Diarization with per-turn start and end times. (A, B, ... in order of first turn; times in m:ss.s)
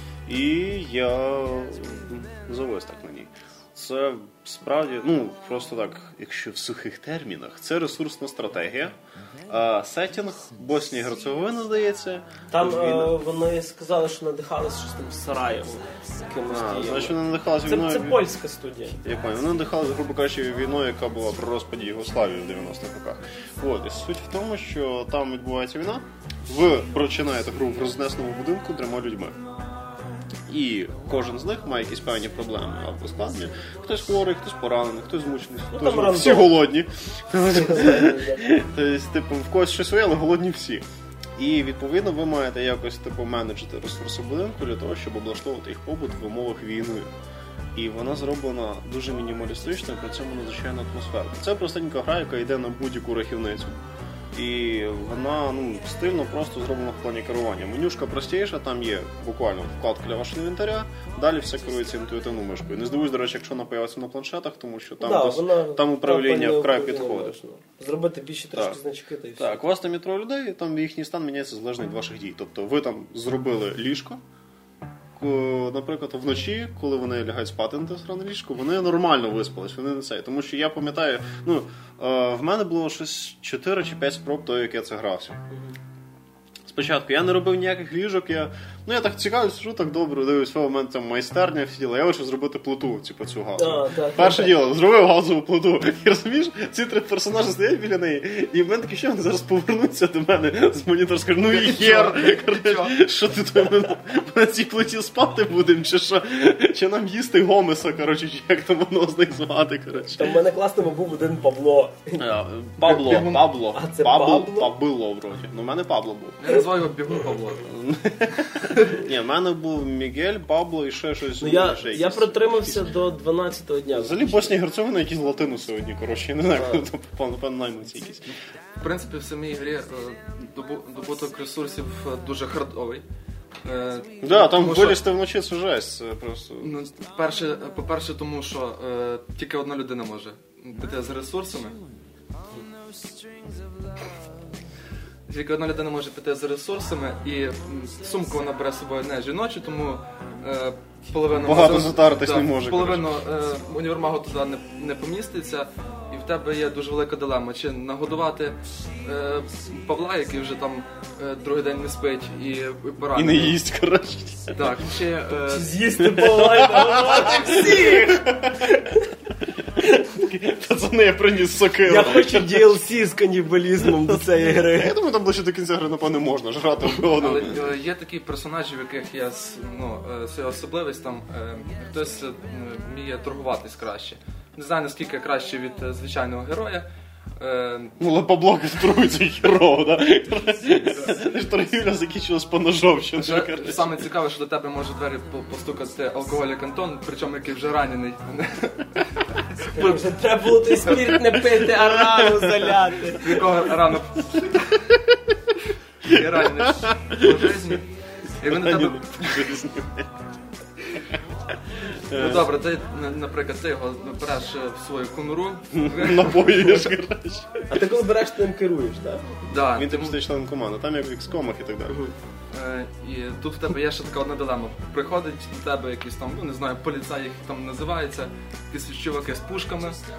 0:00.2-0:09.0 A
0:09.5-0:13.2 A
0:12.5-0:19.0 B
0:16.5-0:18.2 A
0:19.0-0:29.4 A
0:30.5-0:40.8 A
0:35.7-0:36.6 B
0:37.5-0:38.4 B
0:41.4-0:47.1 A
0:47.7-0:53.8 A
0:54.3-1:07.4 A
1:05.0-1:09.6 B
1:09.4-1:14.2 A
1:15.2-1:25.4 A
1:26.7-1:50.4 A
1:33.6-1:34.6 B
1:41.5-1:43.0 C
1:50.2-1:52.2 B
1:52.2-1:56.4 A
1:52.9-1:53.5 C
1:53.7-1:54.7 B
1:56.4-1:57.7 C
1:57.6-2:02.8 A
1:58.6-1:58.9 C
2:01.4-2:04.5 B
2:03.9-2:08.3 A
2:06.6-2:06.8 B
2:08.8-2:13.0 C
2:13.6-2:15.0 C
2:14.2-2:16.8 A
2:16.6-2:21.8 C
2:25.3-2:43.6 C
2:31.3-2:33.1 A
2:43.1-2:44.8 A
2:44.5-2:45.8 C
2:45.5-2:49.0 B
2:46.2-2:48.8 A
2:47.0-2:47.6 C
2:49.6-2:52.7 A
2:51.9-2:54.9 B
2:54.7-2:57.7 A
2:57.2-3:07.9 C
3:08.0-3:14.0 A
3:10.8-3:11.1 C
3:13.2-3:20.0 C
3:19.7-3:23.5 B
3:21.9-3:22.7 A
3:23.2-3:24.9 C
3:24.2-3:24.4 A
3:25.0-3:25.5 A
3:26.0-3:29.5 C
3:26.0-3:27.8 A
3:28.4-3:30.1 A
3:32.1-3:32.5 A
3:32.1-3:36.6 C
3:35.7-3:37.8 A
3:37.7-3:39.4 B
3:39.5-3:40.2 C
3:39.7-3:42.0 A
3:42.5-3:50.0 C